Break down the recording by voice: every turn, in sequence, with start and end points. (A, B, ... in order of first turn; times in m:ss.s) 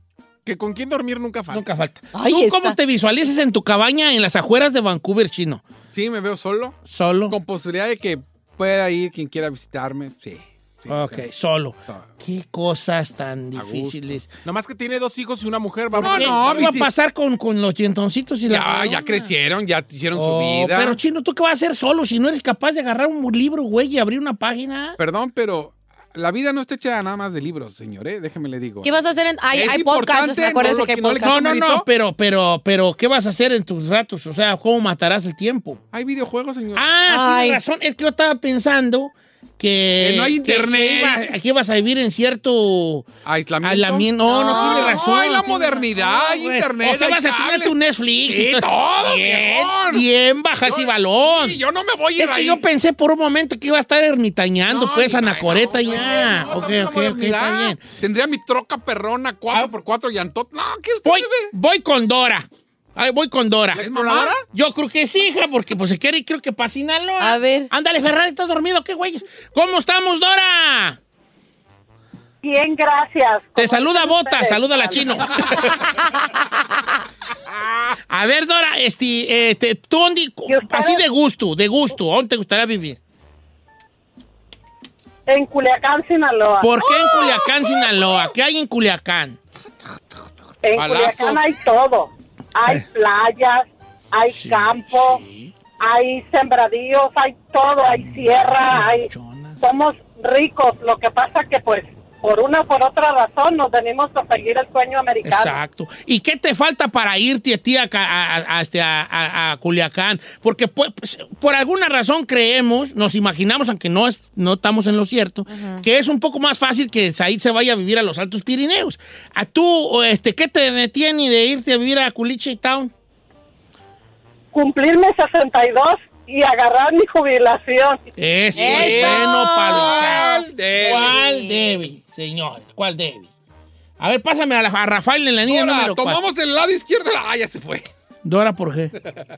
0:00.4-0:01.6 A
0:01.5-0:05.6 B
0:02.1-0:02.8 C
0:05.9-0:06.8 D
0:06.9-0:07.4 B
0:07.3-0:11.2 D
0:10.9-0:14.3 B
0:13.6-0:14.0 D
0:14.4-0:16.8 A
0:15.9-0:19.3 B
0:16.0-0:16.9 D
0:18.5-0:21.0 D
0:20.1-0:25.0 B
0:25.0-0:29.0 D
0:28.8-0:31.3 C
0:29.5-0:31.9 D
0:31.2-0:35.8 B
0:35.9-0:36.9 D
0:36.8-0:43.1 B
0:37.1-0:37.6 C
0:40.0-0:41.3 D
0:43.2-0:47.7 D
0:43.6-0:51.6 B
0:44.3-0:45.2 C
0:48.3-0:50.0 D
0:50.6-0:52.6 D
0:52.2-0:57.8 B
0:54.7-1:01.5 D
1:01.0-1:03.9 B
1:03.8-1:04.4 D
1:03.9-1:04.4 A
1:04.5-1:11.0 B
1:07.2-1:07.7 C
1:12.4-1:15.2 E
1:13.6-1:15.8 B
1:18.1-1:23.0 B
1:20.5-1:21.0 E
1:25.3-1:26.7 E
1:26.6-1:29.4 B
1:27.0-1:27.5 C
1:30.6-1:35.2 E
1:30.8-1:31.5 D
1:34.3-1:35.5 B
1:35.8-1:39.1 E
1:38.0-1:39.6 B
1:39.6-1:45.6 E
1:45.2-2:02.9 B
1:55.5-1:55.8 C
2:04.5-2:08.0 E
2:08.2-2:13.3 B
2:08.6-2:11.1 D
2:08.6-2:11.7 C
2:14.0-2:16.2 B
2:15.5-2:17.9 D
2:18.2-2:18.9 B